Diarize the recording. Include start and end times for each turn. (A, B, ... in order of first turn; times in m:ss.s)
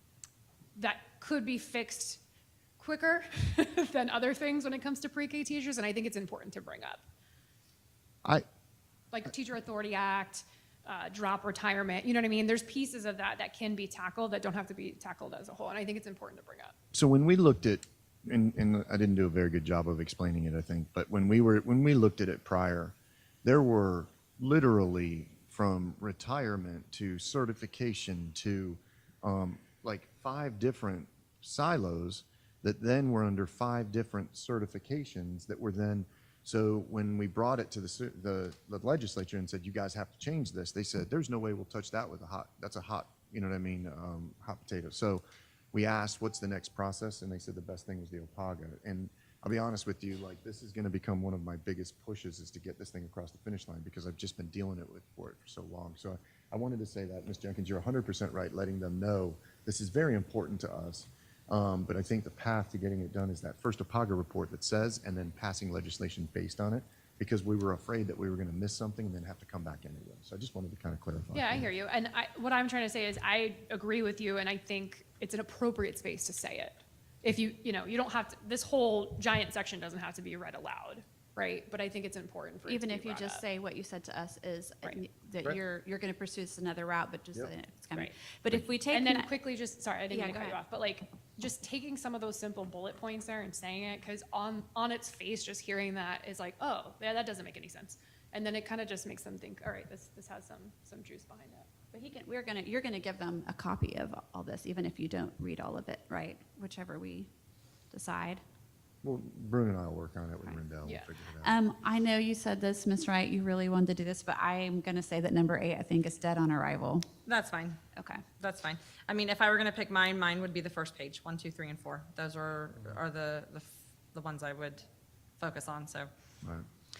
0:00.8-0:02.2 A
0:02.8-0:07.0 A
0:09.1-0:16.7 A
0:16.9-1:11.7 B
1:11.3-1:23.4 A
1:22.7-1:29.3 C
1:28.9-1:41.7 A
1:30.1-1:30.6 C
1:41.9-1:47.3 C
1:47.9-1:48.4 C
1:49.0-1:51.6 B
1:51.4-1:57.1 C
1:57.3-1:57.8 D
1:58.0-1:58.3 C
1:58.4-2:04.8 D
2:05.4-2:06.1 D